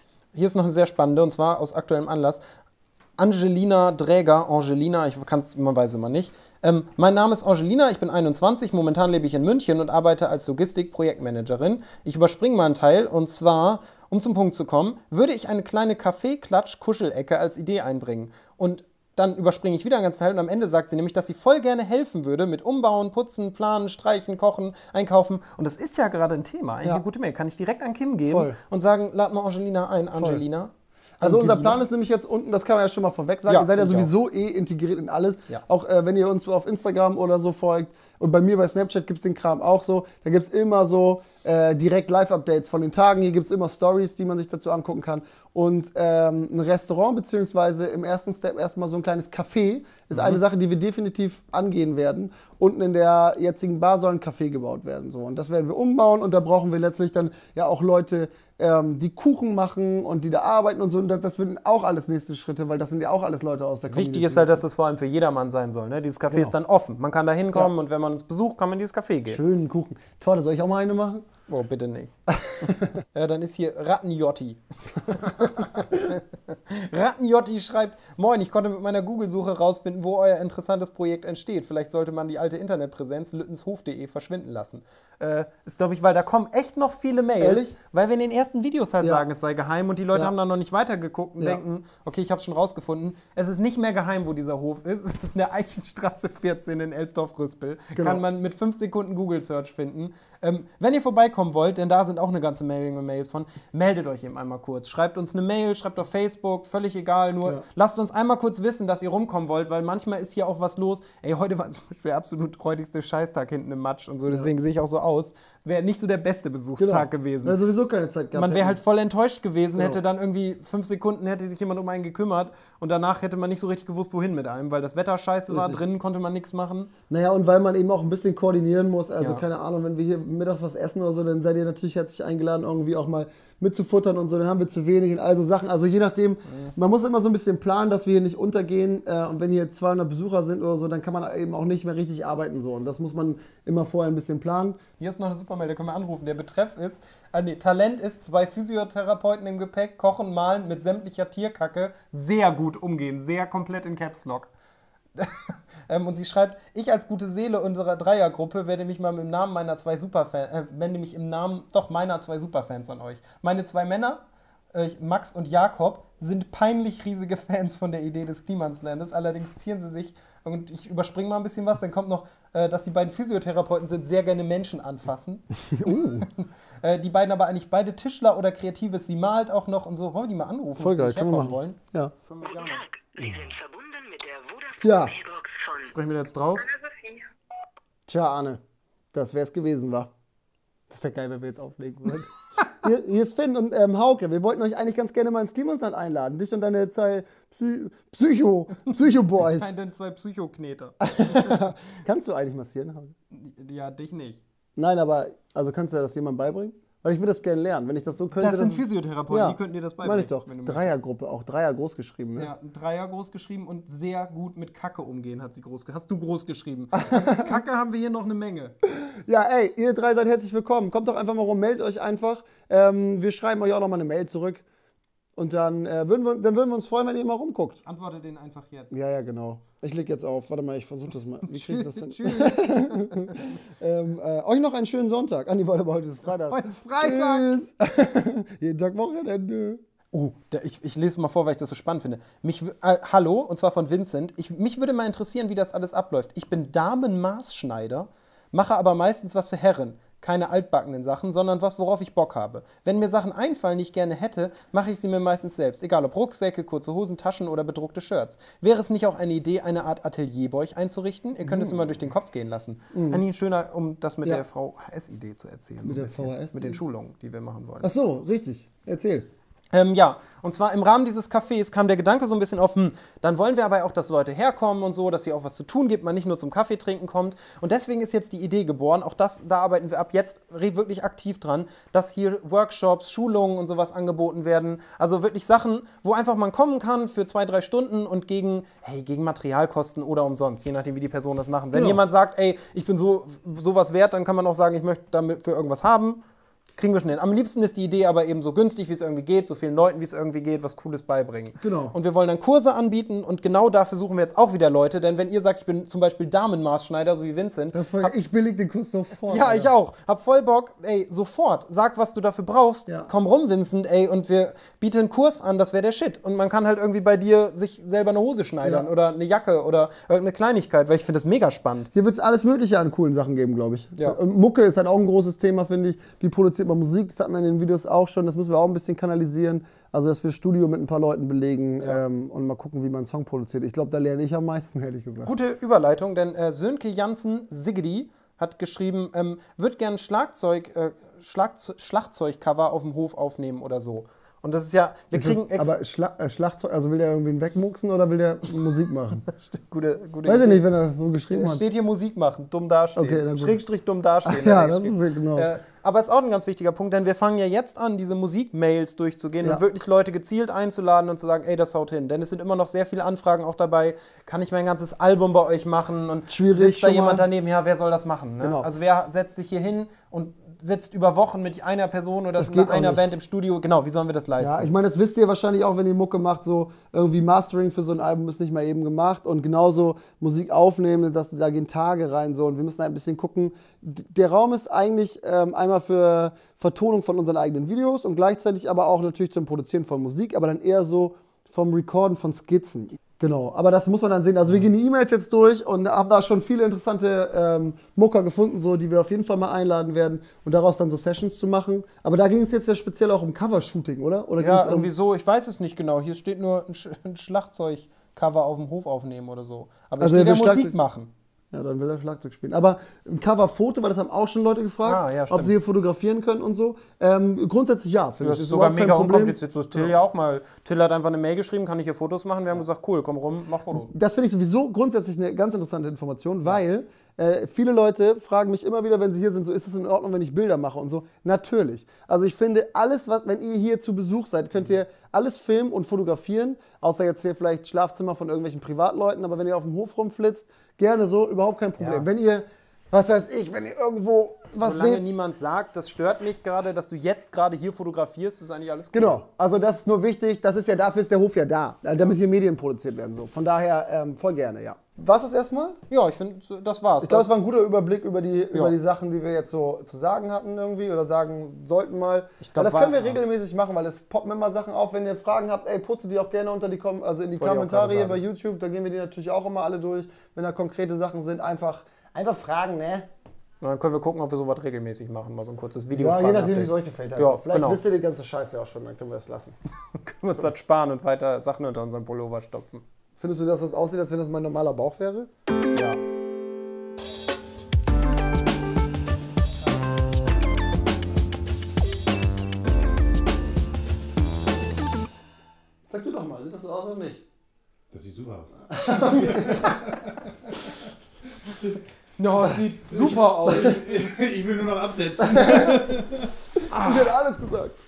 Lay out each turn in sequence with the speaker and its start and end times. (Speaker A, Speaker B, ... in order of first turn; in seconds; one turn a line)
Speaker A: 0.3-2.4
Speaker A: 3.2-31.8
Speaker B: 28.3-28.6
Speaker B: 30.1-30.4
Speaker B: 31.2-64.6
Speaker A: 33.5-34.1
Speaker A: 50.1-50.4
Speaker A: 63.9-69.4
Speaker B: 69.3-71.3
Speaker A: 71.5-117.6
Speaker B: 87.4-87.7
Speaker B: 89.0-89.3
Speaker B: 98.0-98.2
Speaker B: 116.8-118.8
Speaker A: 118.3-126.9
Speaker B: 125.5-125.8
Speaker B: 127.1-144.8
Speaker A: 145.0-154.5
Speaker A: 155.2-164.2
Speaker A: 164.7-182.9
Speaker B: 175.7-176.3
Speaker B: 180.8-182.1
Speaker C: 183.0-185.8
Speaker B: 183.2-183.6
Speaker B: 184.8-185.3
Speaker A: 185.7-186.8
Speaker C: 186.9-187.2
Speaker B: 188.1-188.6
Speaker B: 189.1-190.1
Speaker B: 190.9-199.7
Speaker A: 198.8-201.7
Speaker B: 201.0-203.1
Speaker A: 203.3-204.4
Speaker B: 204.8-212.5
Speaker A: 208.4-211.0
Speaker A: 212.4-218.8
Speaker B: 216.9-217.6
Speaker B: 218.9-224.6
Speaker B: 225.4-227.8
Speaker A: 227.8-229.0
Speaker B: 228.9-239.8
Speaker A: 231.4-233.4
Speaker A: 236.5-237.6
Speaker A: 240.1-267.9
Speaker B: 261.4-262.0
Speaker B: 262.9-263.2
Speaker B: 265.8-266.8
Speaker B: 267.8-269.3
Speaker A: 269.7-296.2
Speaker B: 291.7-292.0
Speaker A: 296.8-308.1
Speaker B: 301.6-301.9
Speaker B: 307.7-309.7
Speaker A: 309.3-321.9
Speaker B: 321.9-335.3
Speaker A: 335.2-345.8
Speaker B: 345.1-349.2
Speaker A: 349.3-350.6
Speaker B: 350.2-351.6
Speaker A: 351.3-374.7
Speaker B: 353.0-353.6
Speaker B: 354.2-355.5
Speaker B: 366.3-367.3
Speaker B: 368.4-368.7
Speaker B: 372.4-373.1
Speaker B: 374.4-404.9
Speaker A: 404.4-411.1
Speaker B: 410.0-410.8
Speaker B: 411.5-419.9
Speaker A: 414.8-415.5
Speaker A: 418.2-423.9
Speaker B: 423.7-445.0
Speaker A: 441.8-442.1
Speaker A: 444.6-449.2
Speaker B: 448.9-455.8
Speaker A: 455.9-457.3
Speaker B: 457.0-473.1
Speaker A: 462.4-463.2
Speaker A: 467.4-468.2
Speaker A: 473.6-477.8
Speaker B: 475.9-479.6
Speaker A: 479.9-482.8
Speaker B: 483.2-485.3
Speaker A: 485.7-486.0
Speaker B: 495.9-497.2
Speaker D: 497.9-498.8
Speaker B: 498.7-499.8
Speaker A: 502.2-504.0
Speaker D: 503.9-505.3
Speaker B: 505.3-505.9
Speaker A: 506.7-507.1
Speaker B: 506.7-507.8